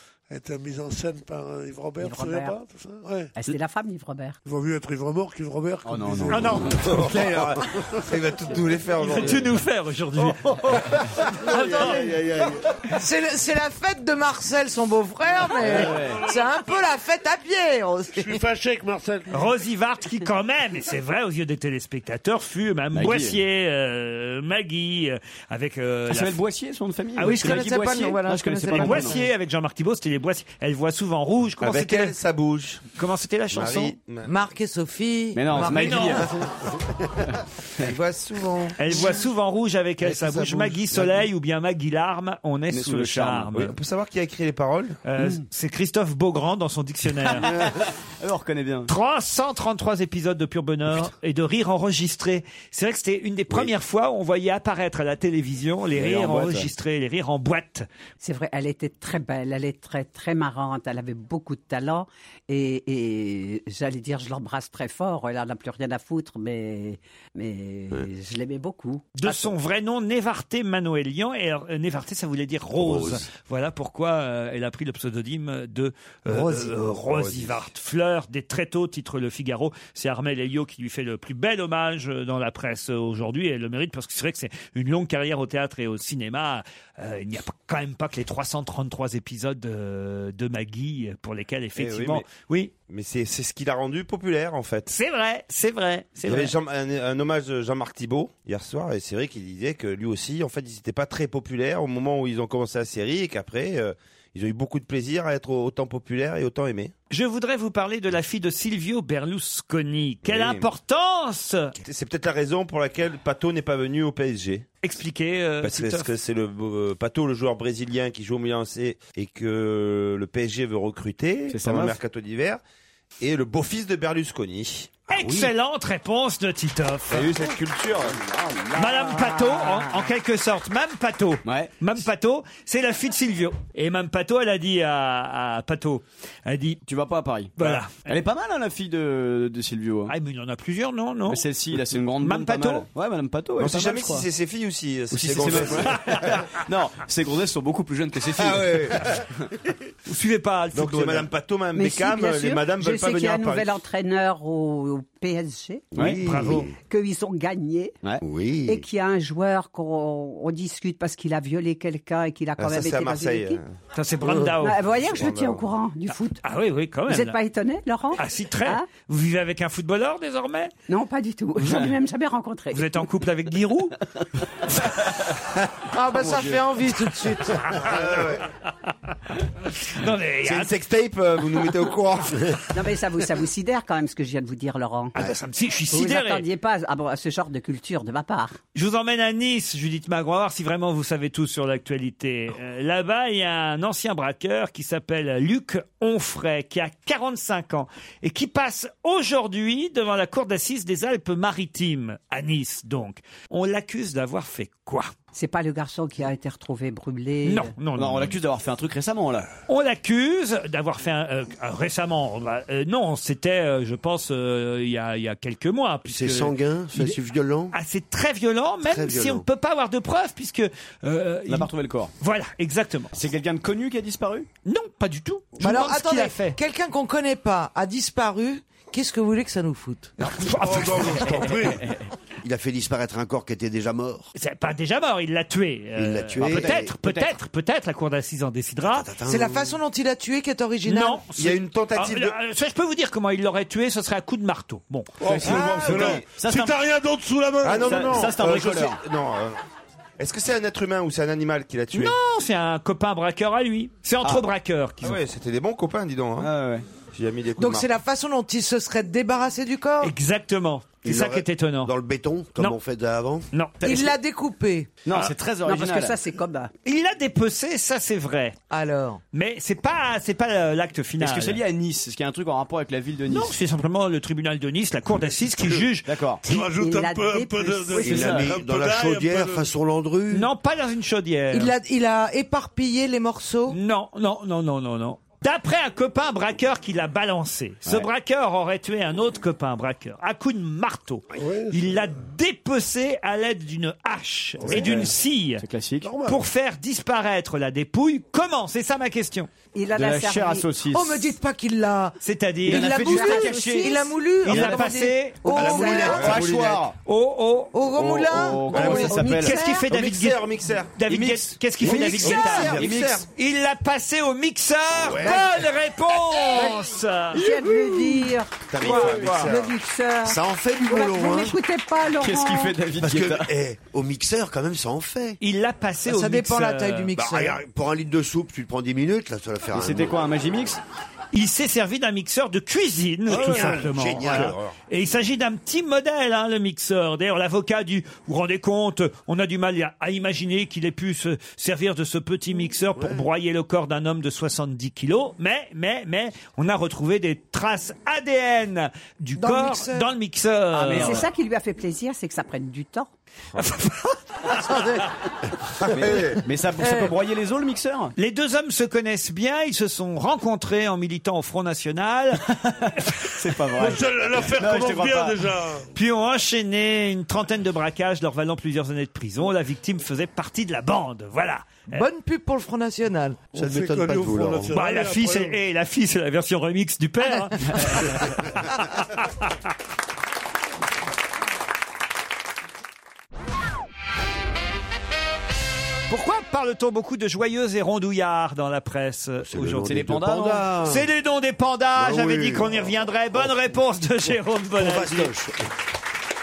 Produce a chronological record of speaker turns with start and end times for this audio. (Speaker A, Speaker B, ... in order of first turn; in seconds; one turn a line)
Speaker A: 0.3-3.3
Speaker B: 2.0-2.6
Speaker B: 3.4-4.4
Speaker A: 4.5-6.7
Speaker C: 5.8-6.8
Speaker D: 6.3-7.5
Speaker E: 6.9-9.5
Speaker D: 9.0-10.8
Speaker E: 10.7-12.5
Speaker D: 11.5-12.1
Speaker F: 12.9-18.4
Speaker C: 15.7-16.3
Speaker A: 18.1-19.4
Speaker D: 19.3-26.4
Speaker C: 22.9-23.4
Speaker C: 26.1-29.2
Speaker D: 27.2-27.7
Speaker F: 27.2-29.3
Speaker D: 28.7-32.2
Speaker E: 31.6-32.8
Speaker D: 33.0-34.0
Speaker E: 33.5-34.3
Speaker F: 34.2-36.3
Speaker C: 35.3-36.3
Speaker D: 35.7-36.3
Speaker E: 37.9-38.7
Speaker F: 38.2-38.7
Speaker D: 38.8-43.7
Speaker C: 42.7-43.6
Speaker E: 43.6-45.0
Speaker D: 45.1-47.5
Speaker C: 47.3-48.9
Speaker D: 48.9-57.9
Speaker C: 55.9-56.7
Speaker B: 58.2-69.5
Speaker D: 69.2-92.7
Speaker G: 72.8-73.2
Speaker E: 76.3-77.5
Speaker E: 91.8-92.2
Speaker E: 92.9-94.9
Speaker D: 94.9-96.5
Speaker E: 96.2-106.9
Speaker D: 107.1-111.8
Speaker E: 110.2-110.7
Speaker E: 111.8-114.7
Speaker D: 114.8-116.1
Speaker E: 115.6-122.6
Speaker C: 121.5-122.0
Speaker E: 123.2-125.1
Speaker D: 125.1-127.3
Speaker E: 127.1-128.2
Speaker C: 127.1-127.5
Speaker C: 128.2-129.3
Speaker D: 128.8-136.8
Speaker C: 131.4-131.7
Speaker C: 136.9-140.1
Speaker D: 137.6-138.1
Speaker D: 140.1-141.4
Speaker C: 141.3-144.2
Speaker D: 142.2-142.9
Speaker E: 143.6-146.3
Speaker C: 145.1-149.0
Speaker E: 148.4-149.0
Speaker D: 150.1-151.3
Speaker E: 150.7-153.8
Speaker B: 151.8-155.9
Speaker C: 155.9-156.2
Speaker G: 155.9-156.7
Speaker D: 156.0-156.7
Speaker B: 156.5-157.9
Speaker G: 158.2-158.8
Speaker B: 158.7-163.6
Speaker E: 162.6-163.7
Speaker D: 163.9-164.8
Speaker B: 164.6-166.4
Speaker E: 164.9-165.7
Speaker D: 166.4-167.4
Speaker B: 167.1-168.9
Speaker D: 168.2-170.7
Speaker B: 170.9-172.8
Speaker D: 172.7-174.0
Speaker F: 175.9-177.7
Speaker C: 176.2-176.6
Speaker D: 177.6-178.4
Speaker E: 177.8-178.4
Speaker D: 179.8-180.7
Speaker E: 180.4-182.6
Speaker B: 182.7-185.1
Speaker D: 185.2-186.4
Speaker B: 185.9-188.6
Speaker D: 188.8-205.1
Speaker B: 205.3-207.7
Speaker D: 207.4-208.3
Speaker C: 208.0-209.5
Speaker D: 209.7-217.2
Speaker G: 216.1-217.8
Speaker D: 217.7-223.1
Speaker G: 218.8-219.5
Speaker C: 221.5-222.1
Speaker C: 223.1-224.5
Speaker D: 224.7-226.6
Speaker F: 225.6-230.1
Speaker D: 230.2-231.5
Speaker A: 230.6-231.8
Speaker G: 232.4-234.3
Speaker D: 234.4-239.1
Speaker G: 236.0-236.9
Speaker C: 236.4-237.3
Speaker G: 238.9-239.8
Speaker F: 239.3-241.2
Speaker D: 240.9-245.2
Speaker E: 241.3-242.3
Speaker A: 245.2-248.2
Speaker C: 245.3-246.8
Speaker E: 245.4-246.2
Speaker E: 247.6-249.6
Speaker C: 247.8-249.0
Speaker E: 250.2-252.2
Speaker D: 251.9-255.2
Speaker E: 255.0-256.5
Speaker C: 256.4-256.8
Speaker E: 257.1-257.9
Speaker F: 257.6-260.1
Speaker D: 260.0-261.9
Speaker G: 261.0-263.5
Speaker D: 263.5-263.8
Speaker C: 263.8-264.1
Speaker F: 263.8-264.9
Speaker C: 265.1-266.2
Speaker B: 265.6-266.7
Speaker D: 266.9-268.6
Speaker F: 268.7-269.2
Speaker D: 269.3-271.6
Speaker C: 271.2-273.5
Speaker D: 273.3-276.1
Speaker C: 276.1-276.4
Speaker A: 276.4-279.7
Speaker B: 276.8-278.1
Speaker C: 278.0-278.5
Speaker G: 278.0-280.5
Speaker D: 280.3-281.7
Speaker F: 281.5-283.8
Speaker D: 283.7-295.6
Speaker A: 291.4-292.0
Speaker A: 294.7-295.1
Speaker C: 294.7-296.1
Speaker A: 296.0-296.4
Speaker D: 296.3-299.5
Speaker B: 299.8-300.7
Speaker C: 299.9-301.3
Speaker F: 300.9-302.2
Speaker D: 302.2-305.9
Speaker C: 302.7-303.9
Speaker F: 302.7-306.3
Speaker B: 303.1-304.0
Speaker C: 304.5-304.9
Speaker G: 305.5-306.7
Speaker B: 305.6-306.2
Speaker E: 305.8-306.7
Speaker C: 305.9-306.9
Speaker D: 307.1-307.8
Speaker F: 307.7-309.8
Speaker C: 307.9-309.6
Speaker D: 308.8-317.5
Speaker E: 308.8-309.3
Speaker B: 308.8-309.4
Speaker E: 309.9-311.0
Speaker C: 311.1-313.2
Speaker G: 311.8-313.1
Speaker E: 312.0-313.2
Speaker G: 315.0-315.4
Speaker B: 317.3-322.8
Speaker G: 318.7-319.6
Speaker E: 318.8-319.6
Speaker D: 318.9-319.4
Speaker G: 320.2-321.6
Speaker C: 322.2-323.5
Speaker G: 323.0-325.4
Speaker D: 325.4-327.2
Speaker F: 326.1-327.6
Speaker G: 327.2-330.2
Speaker C: 329.7-330.8
Speaker D: 331.3-351.2
Speaker G: 333.3-334.5
Speaker E: 333.3-334.7
Speaker A: 333.3-333.9
Speaker G: 342.9-343.3
Speaker F: 349.4-350.1
Speaker B: 350.7-353.1
Speaker C: 350.9-351.2
Speaker D: 353.6-354.6
Speaker C: 355.9-358.1
Speaker D: 358.2-362.5
Speaker D: 363.0-363.3
Speaker C: 363.4-365.4
Speaker A: 363.8-365.9
Speaker D: 365.9-372.0
Speaker F: 371.9-373.5
Speaker A: 373.5-375.6
Speaker G: 373.6-374.7
Speaker D: 374.7-378.7
Speaker D: 386.1-390.0
Speaker G: 389.4-391.1
Speaker C: 389.8-390.7
Speaker D: 390.8-395.3
Speaker G: 392.0-393.6
Speaker G: 394.8-395.6